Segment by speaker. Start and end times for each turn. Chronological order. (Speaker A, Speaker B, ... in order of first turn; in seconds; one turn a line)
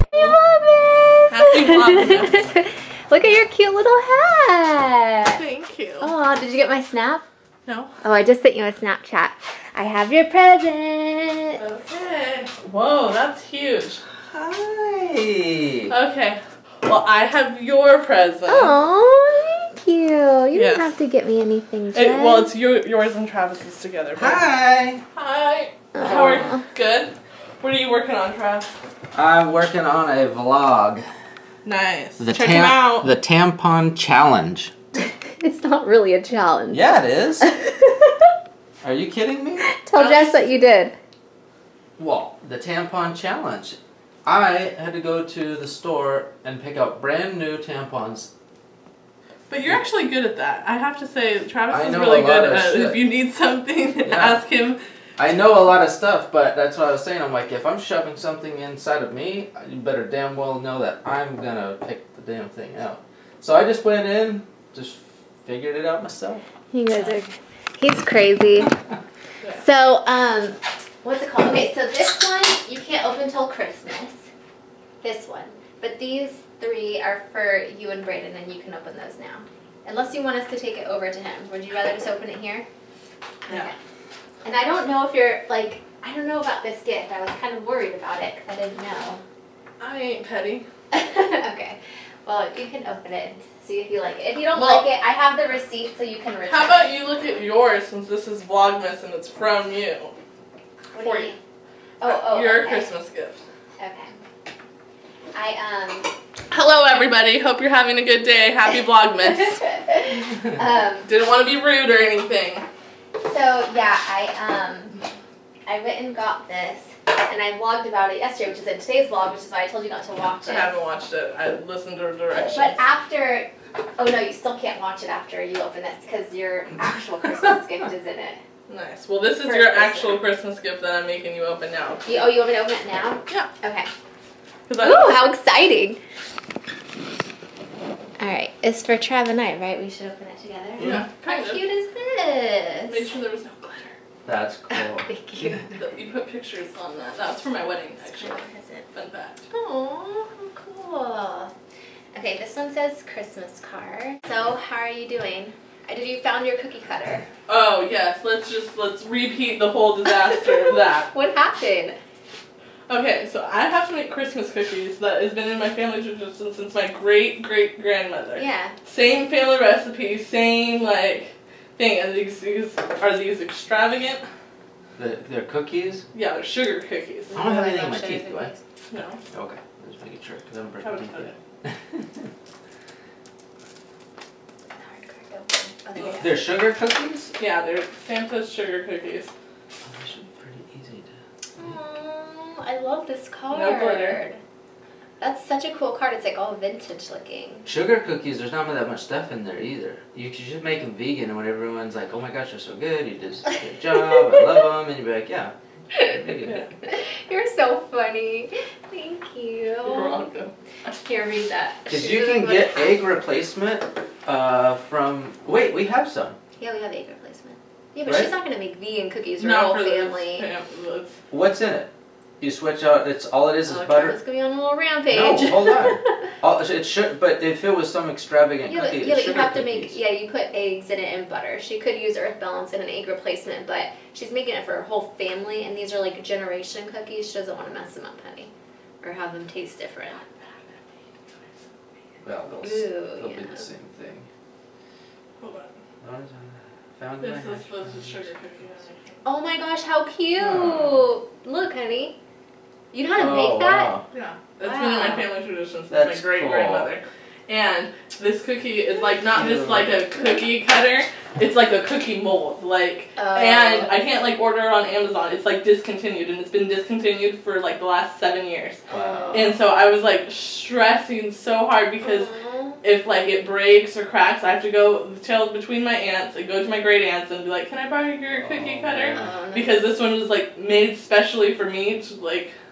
Speaker A: 0.1-5.4
Speaker B: 1.3-2.5
Speaker B: 5.2-6.1
Speaker A: 6.0-7.2
Speaker B: 7.7-7.9
Speaker A: 8.0-11.6
Speaker B: 11.6-14.0
Speaker C: 14.3-15.9
Speaker B: 15.9-18.8
Speaker A: 18.5-22.5
Speaker B: 20.5-20.9
Speaker B: 21.9-24.4
Speaker C: 24.1-25.0
Speaker B: 25.1-28.7
Speaker A: 25.9-26.6
Speaker C: 29.1-31.1
Speaker B: 31.6-33.1
Speaker C: 32.2-34.7
Speaker A: 35.0-38.1
Speaker C: 36.7-37.5
Speaker C: 38.8-39.7
Speaker A: 39.6-41.0
Speaker B: 40.0-40.5
Speaker C: 42.0-48.3
Speaker B: 49.5-54.8
Speaker C: 51.7-53.0
Speaker C: 54.0-54.4
Speaker C: 55.2-66.4
Speaker A: 66.7-68.8
Speaker A: 69.5-74.2
Speaker A: 75.0-82.7
Speaker A: 83.5-83.7
Speaker A: 84.4-89.2
Speaker B: 89.8-90.7
Speaker A: 90.9-96.9
Speaker B: 94.5-94.9
Speaker B: 96.5-100.1
Speaker A: 100.9-101.4
Speaker B: 101.0-101.3
Speaker A: 102.0-102.9
Speaker B: 102.0-103.4
Speaker A: 103.8-104.1
Speaker A: 105.3-106.1
Speaker B: 106.5-109.6
Speaker A: 109.2-111.1
Speaker B: 111.0-112.7
Speaker A: 113.2-115.0
Speaker A: 115.7-120.7
Speaker B: 120.4-122.8
Speaker A: 122.3-128.4
Speaker B: 128.7-132.3
Speaker A: 129.4-130.2
Speaker A: 132.1-133.9
Speaker B: 134.7-135.2
Speaker A: 134.8-136.0
Speaker A: 138.2-143.1
Speaker C: 140.8-141.1
Speaker B: 140.8-141.6
Speaker B: 142.9-144.0
Speaker C: 144.2-145.1
Speaker A: 144.7-145.7
Speaker B: 145.7-149.4
Speaker A: 148.0-148.9
Speaker A: 149.5-151.5
Speaker A: 152.1-157.3
Speaker B: 157.5-161.1
Speaker A: 161.1-162.0
Speaker B: 162.9-174.2
Speaker A: 168.3-168.8
Speaker C: 175.0-176.0
Speaker B: 176.1-177.4
Speaker A: 177.3-178.6
Speaker C: 177.3-178.5
Speaker B: 178.9-179.2
Speaker C: 179.3-182.2
Speaker B: 180.8-181.4
Speaker A: 184.7-186.5
Speaker C: 186.0-187.3
Speaker B: 187.4-189.3
Speaker C: 189.8-191.1
Speaker A: 191.6-194.4
Speaker B: 193.5-194.2
Speaker A: 195.2-197.7
Speaker C: 197.7-206.7
Speaker A: 204.0-204.4
Speaker A: 206.9-210.3
Speaker B: 209.8-210.5
Speaker A: 211.0-212.8
Speaker C: 211.9-216.4
Speaker A: 216.6-220.5
Speaker C: 218.1-218.3
Speaker B: 219.4-221.2
Speaker C: 221.3-224.2
Speaker A: 223.7-226.0
Speaker C: 225.1-230.0
Speaker A: 228.7-238.5
Speaker A: 239.0-240.2
Speaker C: 242.2-244.3
Speaker A: 242.6-243.7
Speaker B: 245.4-245.7
Speaker C: 246.0-248.3
Speaker B: 247.2-249.2
Speaker A: 249.2-252.2
Speaker C: 250.4-251.1
Speaker A: 252.9-253.9
Speaker C: 253.2-254.1
Speaker B: 254.1-268.8
Speaker A: 254.6-255.3
Speaker C: 255.9-256.9
Speaker C: 259.3-260.0
Speaker A: 263.2-264.0
Speaker A: 268.9-269.6
Speaker C: 268.9-269.4
Speaker B: 269.3-272.3
Speaker A: 272.0-272.8
Speaker B: 272.8-282.5
Speaker C: 278.4-279.2
Speaker A: 279.1-279.8